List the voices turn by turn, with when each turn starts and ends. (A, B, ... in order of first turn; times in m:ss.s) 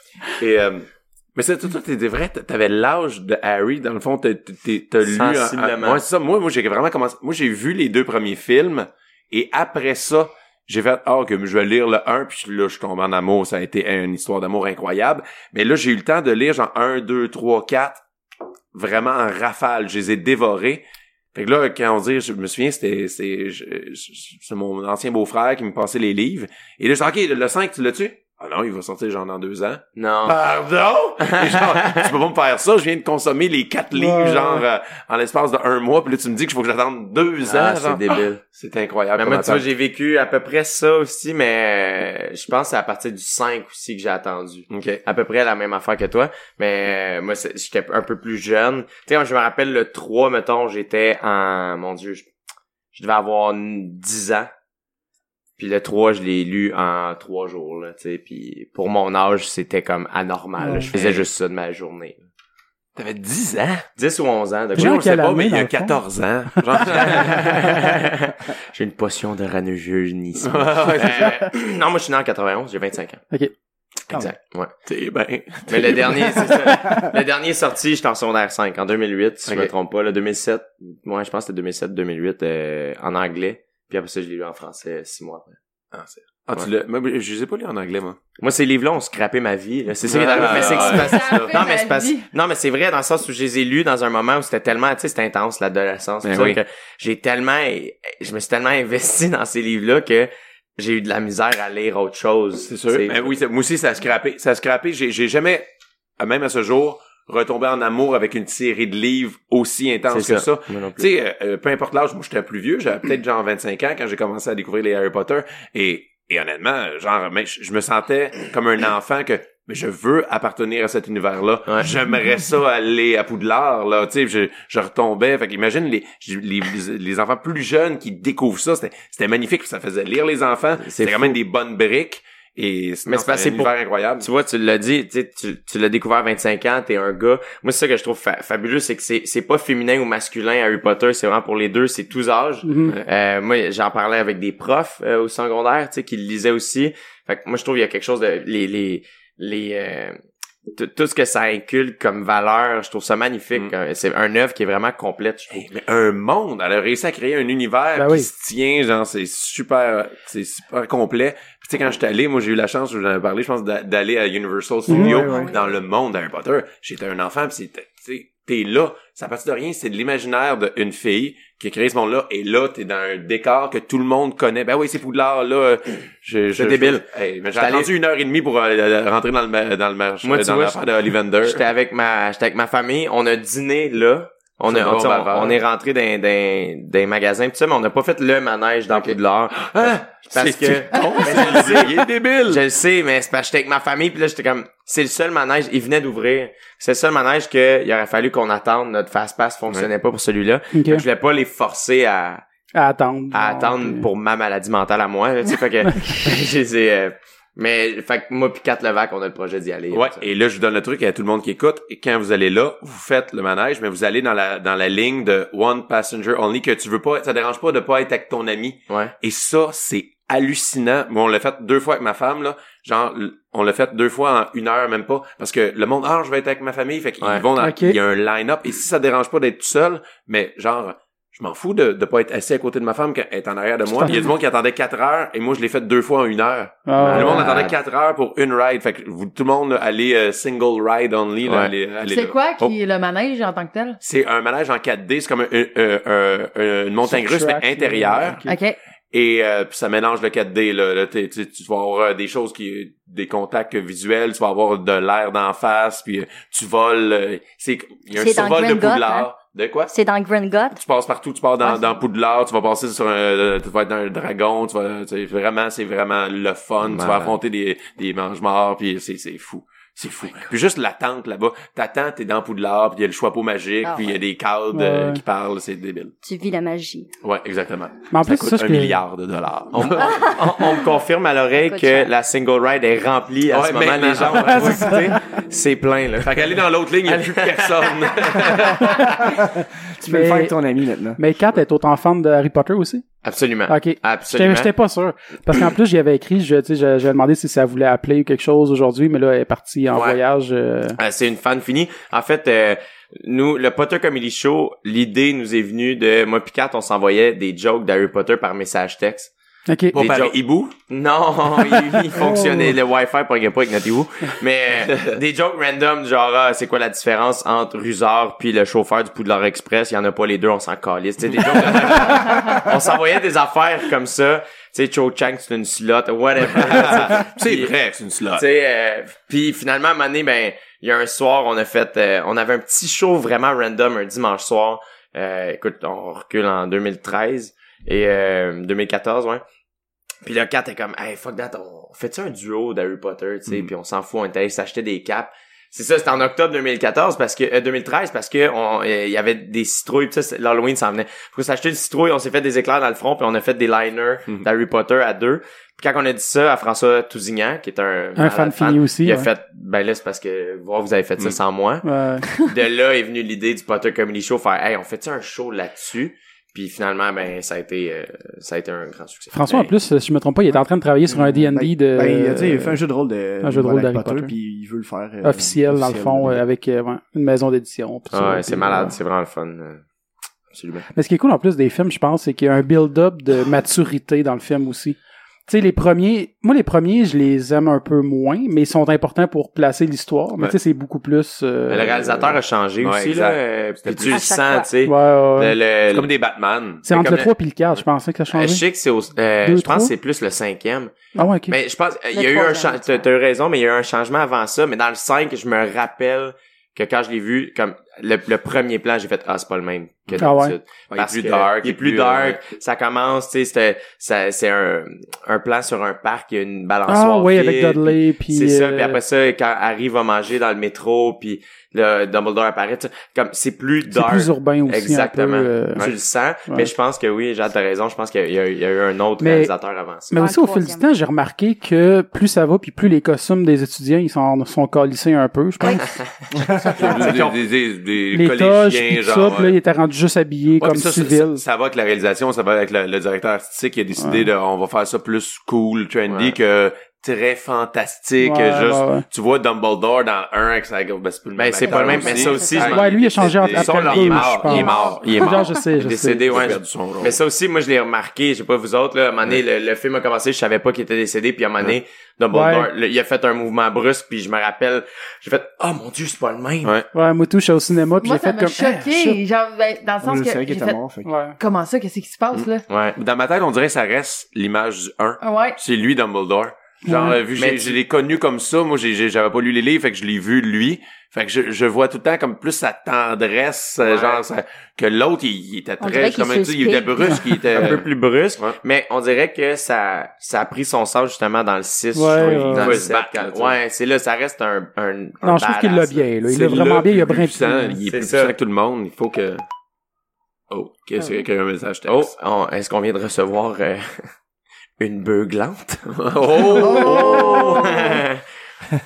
0:00.4-0:18.0 A
0:05.0-0:06.0 B
0:18.7-0:20.8 A
0:21.4-0:39.6 A
0:30.0-0:30.4 B
0:31.2-0:32.1 B
0:33.9-0:34.6 C
0:37.4-0:38.4 B
0:39.2-0:52.3 B
0:44.7-0:45.0 A
0:52.9-0:54.5 B
0:55.6-1:02.2 B
1:00.6-1:00.9 C
1:00.9-1:01.3 A
1:03.0-1:03.9 A
1:04.0-1:05.0 B
1:04.8-1:06.0 C
1:04.8-1:07.7 A
1:06.6-1:07.4 C
1:06.9-1:13.2 B
1:10.4-1:11.5 A
1:14.1-1:14.7 B
1:14.9-1:16.7 A
1:15.7-1:25.6 B
1:25.9-1:28.2 A
1:28.4-1:43.4 B
1:30.1-1:31.6 A
1:30.2-1:32.3 D
1:36.2-1:36.6 A
1:42.7-1:45.7 A
1:46.2-2:14.3 A
1:50.1-1:51.1 B
2:10.8-2:11.4 B
2:13.1-2:30.2 B
2:22.6-2:23.0 C
2:30.7-2:35.5 B
2:35.5-3:01.6 A
2:38.0-2:38.3 C
2:44.9-2:45.5 C
2:45.0-2:45.5 E
2:45.2-2:45.6 F
2:56.6-2:57.9 B
3:00.2-3:00.8 B
3:01.4-3:22.4 B
3:04.6-3:05.6 A
3:08.9-3:12.6 A
3:20.7-3:21.0 C
3:22.8-3:24.1 C
3:23.3-3:30.3 B
3:26.0-3:26.2 C
3:29.9-4:02.8 A
3:47.6-3:48.0 C
3:53.9-3:54.3 C
3:56.9-3:57.7 C
3:57.0-3:57.7 B
4:01.5-4:01.7 B
4:02.1-4:04.0 D
4:04.0-4:08.4 A
4:07.0-4:08.6 C
4:08.5-4:08.8 D
4:09.1-4:19.9 A
4:18.1-4:19.3 F
4:19.9-4:20.8 F
4:20.8-4:36.1 A
4:21.6-4:21.9 F
4:26.8-4:27.4 B
4:33.8-4:34.2 F
4:34.7-4:35.2 C
4:36.2-4:37.1 F
4:37.2-4:40.4 A
4:38.1-4:39.0 C
4:39.7-4:48.8 B
4:41.6-4:42.1 F
4:43.5-4:45.1 A
4:44.3-4:45.2 C
4:46.2-4:49.1 A
4:48.8-4:49.1 C
4:49.6-4:51.2 E
4:50.0-4:50.5 C
4:51.2-4:53.0 C
4:53.2-4:54.7 B
4:53.7-5:01.0 C
4:59.9-5:00.2 B
5:01.0-5:09.3 B
5:09.7-5:10.0 C
5:10.0-5:10.4 B
5:10.0-5:10.8 A
5:10.9-5:27.7 B
5:12.0-5:12.8 C
5:14.9-5:15.2 A
5:21.4-5:22.4 A
5:26.4-5:28.4 A
5:28.3-5:39.4 B
5:40.2-6:09.7 B
5:58.2-5:59.3 C
6:01.8-6:02.3 C
6:09.3-6:12.8 C
6:11.1-6:16.4 E
6:13.4-6:14.3 C
6:15.2-6:18.9 C
6:18.1-6:19.8 B
6:20.5-6:20.9 B
6:21.0-6:32.0 C
6:31.7-6:36.1 B
6:31.8-6:34.2 A
6:34.0-6:34.8 F
6:34.8-6:35.6 C
6:35.9-6:36.9 A
6:36.8-6:38.6 C
6:36.9-6:37.3 B
6:38.3-7:10.2 B
6:39.4-6:39.9 C
6:41.2-6:41.6 C
6:42.1-6:43.1 F
6:50.2-6:50.6 C
6:50.9-6:52.4 A
6:56.9-6:59.0 C
7:03.9-7:05.9 C
7:09.2-7:09.5 C
7:10.1-7:16.0 C
7:10.2-7:10.9 F
7:15.6-7:17.3 F
7:16.3-7:17.3 E
7:16.8-7:19.6 A
7:18.1-7:21.4 C
7:20.6-7:35.5 A
7:24.0-7:24.3 C
7:26.1-7:26.4 B
7:28.2-7:29.1 C
7:31.4-7:46.8 B
7:31.6-7:32.7 F
7:32.6-7:36.5 C
7:34.4-7:35.7 F
7:36.3-7:37.2 A
7:42.3-7:42.7 C
7:46.9-7:49.2 C
7:48.0-7:50.8 D
7:50.0-7:51.1 E
7:51.0-7:51.4 C
7:51.4-7:52.6 D
7:52.3-8:07.9 A
7:52.7-7:53.0 B
7:55.2-7:55.6 D
7:56.8-7:57.2 C
7:57.4-7:57.8 B
8:03.8-8:04.3 B
8:05.8-8:07.5 F
8:07.5-8:16.0 B
8:11.9-8:12.8 C
8:12.2-8:13.6 A
8:15.2-8:17.8 C
8:16.3-8:19.4 A
8:17.9-8:18.4 B
8:20.5-8:22.1 A
8:21.8-8:24.1 B
8:24.8-8:28.2 B
8:25.9-8:27.8 A